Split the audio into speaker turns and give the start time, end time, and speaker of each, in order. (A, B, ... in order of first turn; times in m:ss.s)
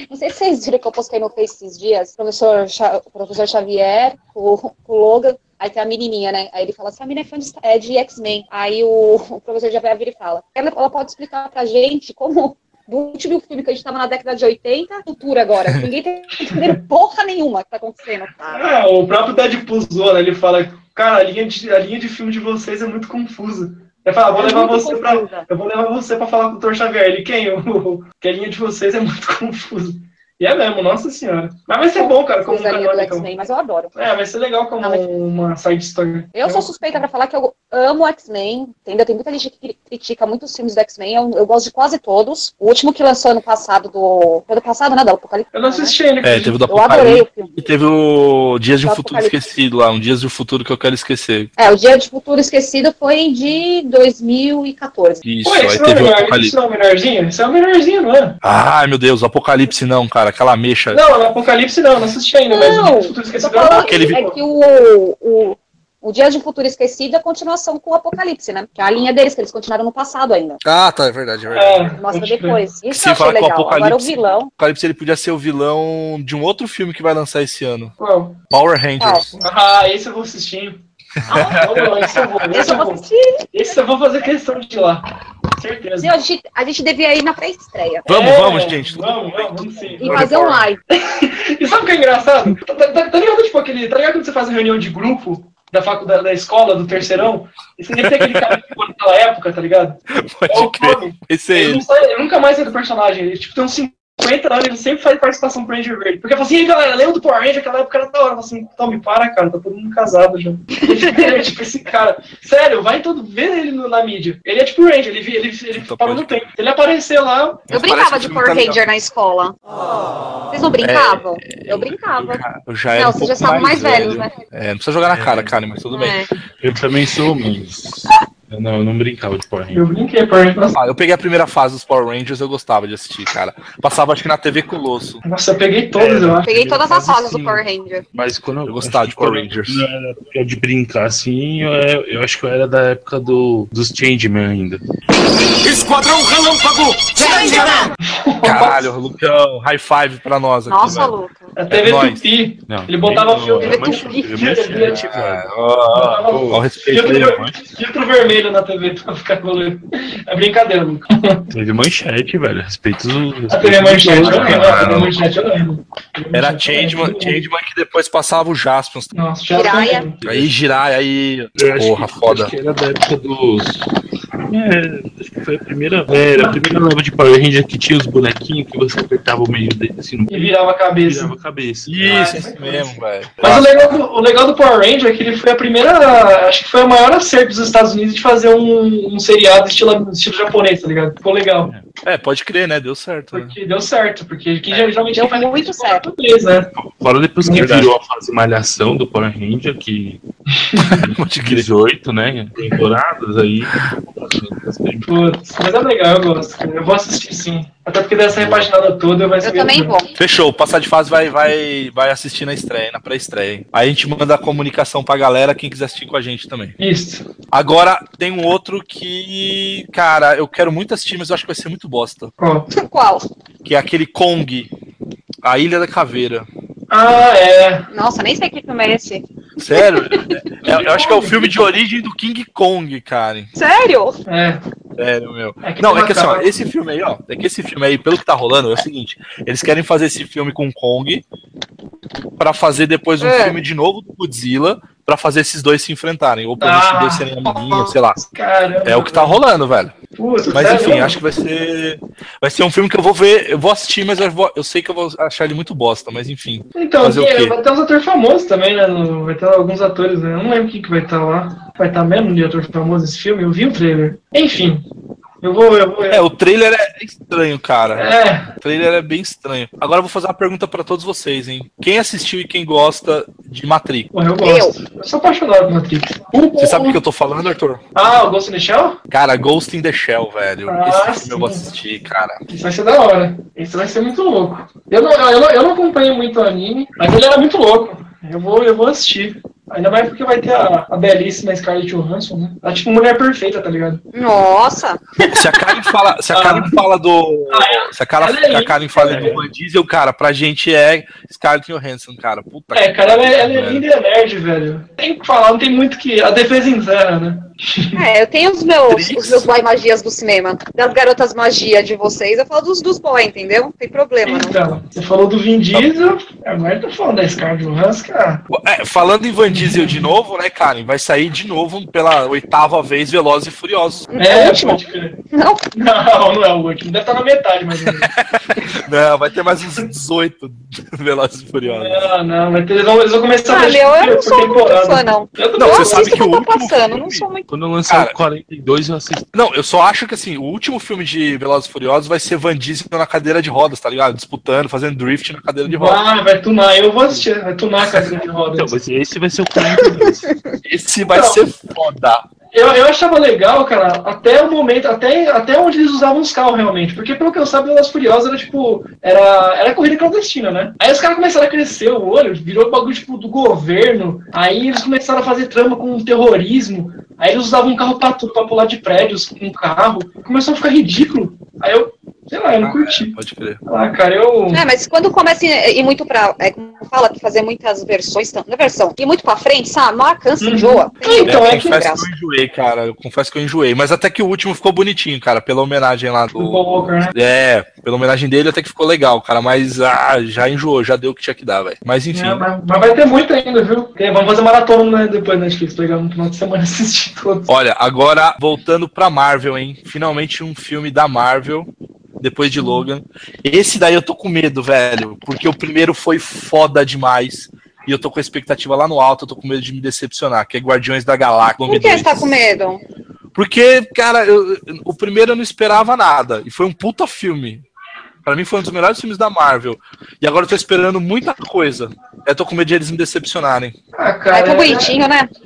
0:00.1-0:18.7 A
0:18.5-0:33.3 B
0:24.3-0:25.4 A
0:32.0-0:33.9 A
0:33.9-0:36.8 B
0:36.3-0:46.0 A
0:45.5-0:46.6 B
0:46.2-0:51.5 C
0:46.7-0:47.6 A
0:48.8-0:49.4 A
0:51.6-0:55.2 A
0:55.2-0:56.6 C
0:55.4-0:58.4 B
0:58.4-1:01.0 C
1:00.9-1:04.4 B
1:02.5-1:10.6 A
1:03.8-1:04.2 C
1:10.6-1:12.0 C
1:11.5-1:12.6 B
1:12.0-1:14.5 A
1:12.9-1:17.9 C
1:18.0-1:18.4 B
1:18.5-1:19.4 C
1:19.0-1:19.3 A
1:19.4-1:20.8 B
1:21.2-1:22.5 C
1:21.3-1:21.8 A
1:21.3-1:26.1 B
1:22.5-1:23.5 A
1:26.0-1:28.1 A
1:28.1-1:30.7 C
1:28.1-1:30.3 B
1:30.0-1:30.8 A
1:30.9-1:57.7 B
1:38.0-1:38.6 C
1:40.1-1:41.8 C
1:50.8-1:51.4 A
1:55.7-1:56.3 C
1:57.7-1:58.8 C
1:57.7-1:59.5 A
2:00.5-2:04.3 A
2:00.8-2:06.2 C
2:05.1-2:05.6 D
2:05.9-2:06.3 A
2:06.6-2:09.9 D
2:09.7-2:10.8 B
2:10.8-2:15.2 C
2:15.2-2:16.5 B
2:15.9-2:24.8 D
2:16.4-2:18.0 A
2:18.6-2:19.8 C
2:25.6-2:27.9 E
2:27.2-2:27.7 A
2:28.0-2:28.9 B
2:28.4-2:31.1 C
2:30.7-2:31.5 A
2:31.6-2:35.0 B
2:31.7-2:32.2 C
2:32.7-2:35.5 D
2:33.6-2:34.3 A
2:34.8-2:37.4 C
2:35.9-2:41.5 B
2:36.2-2:36.6 D
2:41.5-2:45.2 D
2:43.5-2:47.4 B
2:44.2-2:45.0 C
2:46.3-2:49.1 C
2:49.1-2:50.2 B
2:49.5-2:50.1 A
2:50.2-2:50.5 D
2:50.2-2:52.5 C
2:51.6-2:53.8 D
2:54.5-3:02.4 D
3:00.3-3:01.3 B
3:01.9-3:04.0 C
3:02.0-3:11.7 B
3:12.0-3:13.6 C
3:13.3-3:16.7 B
3:15.1-3:16.0 A
3:16.8-3:20.2 D
3:17.4-3:17.8 B
3:17.5-3:17.9 C
3:20.6-3:21.0 B
3:20.9-3:21.7 C
3:21.0-3:25.1 D
3:25.0-3:29.9 B
3:28.3-3:28.7 D
3:29.4-3:30.1 A
3:30.2-3:36.8 C
3:36.8-3:37.2 B
3:37.5-3:42.3 C
3:42.4-3:42.7 B
3:42.7-3:43.2 A
3:43.6-3:44.7 C
3:45.4-3:46.5 C
3:46.9-3:47.9 B
3:47.9-3:50.3 A
3:49.6-3:53.5 C
3:50.6-3:51.6 B
3:53.6-3:54.2 A
3:54.3-3:54.6 B
3:55.0-4:01.2 C
3:55.6-3:56.5 B
4:02.4-4:08.2 C
4:03.2-4:03.6 A
4:06.6-4:09.4 B
4:08.8-4:09.9 C
4:10.1-4:11.2 B
4:10.5-4:17.6 C
4:16.8-4:24.8 B
4:25.4-4:26.2 B
4:26.1-4:28.1 C
4:27.9-4:28.5 B
4:28.6-4:34.1 C
4:34.1-4:37.0 B
4:34.4-4:34.8 A
4:36.6-4:37.8 C
4:37.9-4:39.0 B
4:39.1-4:42.4 C
4:40.7-4:41.7 B
4:42.5-4:54.0 B
4:54.1-4:55.4 A
4:55.3-5:03.8 C
4:56.3-4:56.8 B
4:57.5-4:59.4 B
4:59.0-4:59.4 D
5:02.7-5:08.0 B
5:07.9-5:14.6 A
5:08.9-5:09.5 C
5:14.2-5:18.4 B
5:15.7-5:16.0 C
5:18.5-5:24.1 C
5:19.5-5:20.0 B
5:24.1-5:25.6 A
5:24.2-5:25.2 B
5:25.7-5:28.1 B
5:27.8-5:32.1 C
5:31.6-5:36.2 B
5:33.5-5:37.5 A
5:35.6-5:37.3 C
5:37.5-5:39.3 D
5:37.9-5:38.1 C
5:39.3-5:46.0 C
5:45.6-5:48.7 B
5:48.6-5:50.3 D
5:50.6-5:52.2 C
5:51.1-5:51.4 B
5:52.5-6:13.2 B
6:12.6-6:13.6 C
6:13.7-6:14.6 B
6:14.5-6:22.1 A
6:20.4-6:21.8 B
6:21.2-6:32.4 C
6:26.4-6:27.1 B
6:32.1-6:37.5 B
6:37.5-6:41.7 C
6:42.2-6:52.4 C
6:42.6-6:42.9 B
6:51.6-6:52.8 A
6:53.3-6:57.6 C
6:58.2-7:03.8 C
7:04.0-7:05.0 B
7:04.3-7:05.3 A